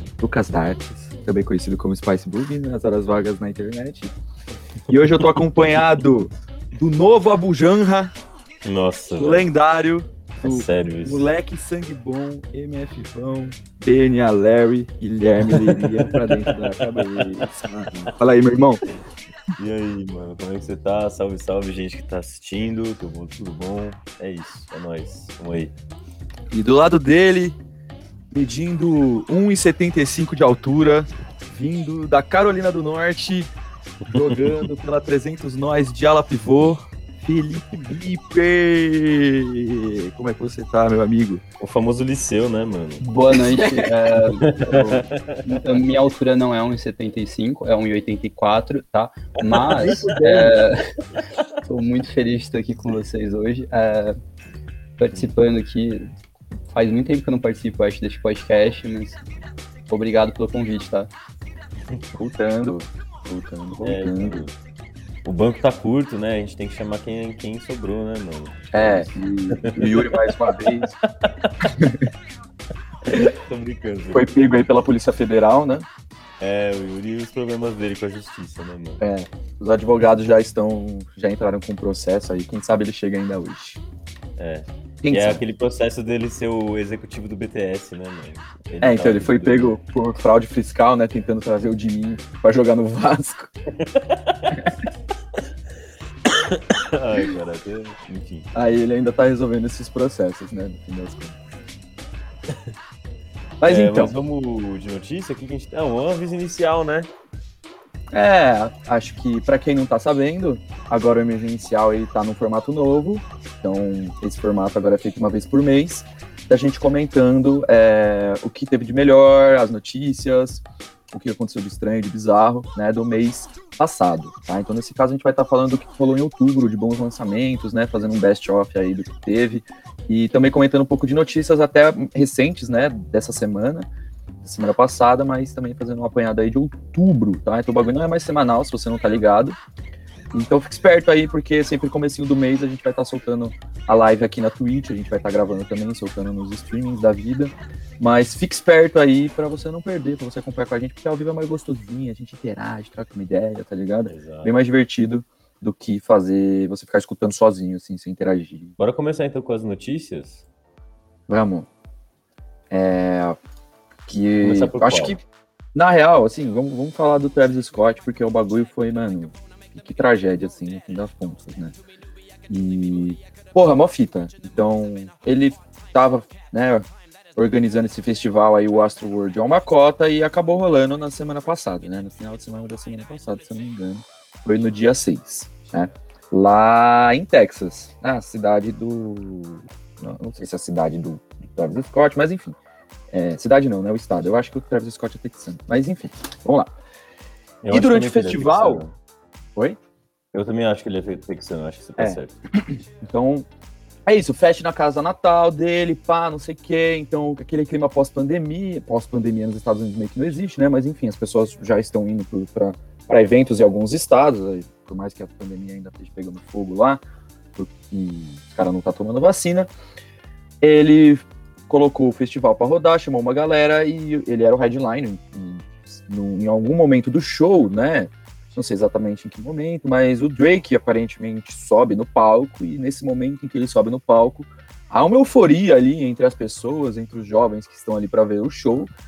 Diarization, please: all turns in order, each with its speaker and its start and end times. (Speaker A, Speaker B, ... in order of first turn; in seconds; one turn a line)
Speaker A: 0.2-4.1
Speaker A: 4.9-8.1
Speaker B: 4.9-5.4
Speaker B: 8.6-9.5
Speaker A: 9.2-18.8
Speaker B: 10.4-11.2
Speaker B: 15.4-18.1
Speaker B: 19.6-25.7
Speaker A: 26.5-27.6
Speaker A: 28.3-33.5
Speaker B: 34.1-34.7
Speaker A: 34.1-41.4
Speaker B: 41.6-43.0
Speaker C: 43.0-44.5
Speaker A: 43.4-43.9
Speaker B: 44.4-45.4
Speaker A: 44.6-45.1
Speaker C: 45.4-50.8
Speaker B: 49.4-50.6
Speaker A: 49.8-50.5
Speaker C: 51.6-54.2
Speaker C: 55.0-56.1
Speaker C: 56.7-59.2
Speaker C: 59.9-61.1
Speaker A: 62.1-64.4
Speaker B: 63.8-64.5
Speaker B: 65.2-71.5
Speaker A: 68.7-70.9
Speaker A: 71.7-72.1
Speaker B: 73.1-74.5
Speaker A: 74.1-75.9
Speaker B: 76.4-79.0
Speaker A: 79.0-83.8
Speaker B: 84.4-89.8
Speaker A: 85.0-85.4
Speaker A: 88.8-93.5
Speaker B: 93.8-94.7
Speaker B: 95.3-98.5
Speaker A: 98.5-101.3
Speaker A: 103.6-104.1
Speaker B: 103.6-107.1
Speaker A: 108.1-133.9
Speaker A: 134.4-139.6
Speaker A: 140.3-158.7
Speaker B: 154.1-154.5
Speaker B: 158.8-160.4
Speaker A: 161.3-161.7
Speaker A: 162.7-163.4
Speaker A: 164.1-165.2
Speaker B: 164.4-165.2
Speaker A: 165.7-171.7
Speaker A: 172.5-192.6
Speaker A: 193.1-196.7
Speaker B: 197.6-198.9
Speaker A: 197.7-198.8
Speaker B: 200.3-202.4
Speaker A: 202.0-203.4
Speaker A: 204.1-217.0
Speaker A: 217.6-219.7
Speaker A: 220.6-238.9